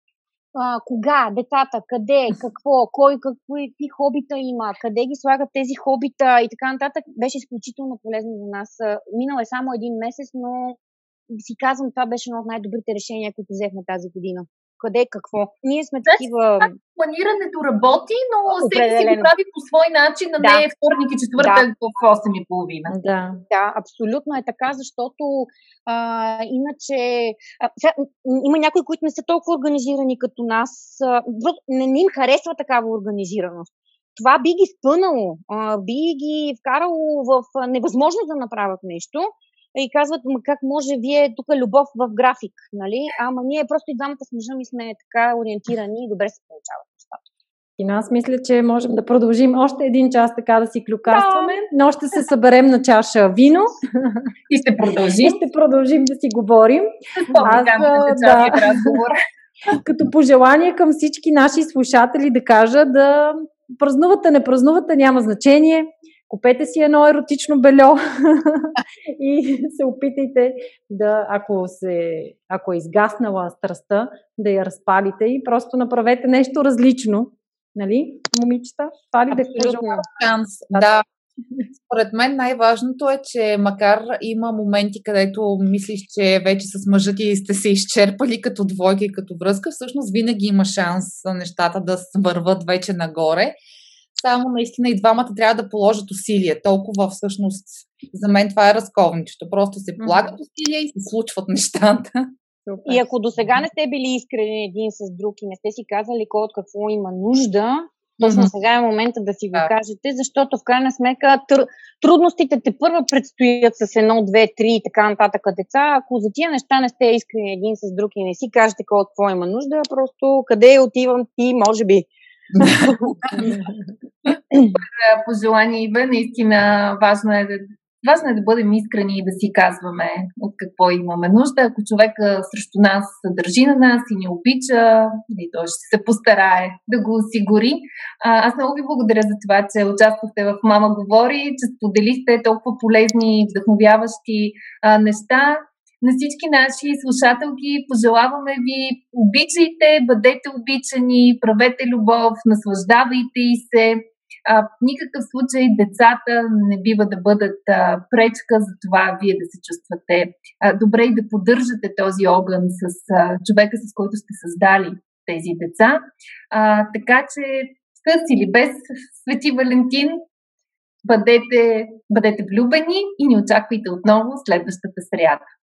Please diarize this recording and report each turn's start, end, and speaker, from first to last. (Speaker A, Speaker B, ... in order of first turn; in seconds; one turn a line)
Speaker A: 0.5-10.8
Speaker A: 11.3-16.7
Speaker B: 16.1-22.9
Speaker A: 18.6-19.3
Speaker A: 21.4-21.6
Speaker C: 22.9-23.4
Speaker A: 23.5-47.2
Speaker C: 47.8-54.2
Speaker B: 51.1-51.5
Speaker B: 54.5-55.4
Speaker C: 55.2-56.9
Speaker B: 57.2-59.2
Speaker C: 57.4-59.0
Speaker C: 59.7-80.0
Speaker D: 79.3-81.0
Speaker A: 79.6-80.0
Speaker D: 81.7-93.6
Speaker D: 94.2-102.3
Speaker C: 102.7-103.0
Speaker A: 102.8-122.1
Speaker D: 108.2-108.5
Speaker D: 122.5-123.6
Speaker C: 123.3-123.9
Speaker B: 124.7-166.0
Speaker B: 166.5-170.2
Speaker B: 171.1-175.4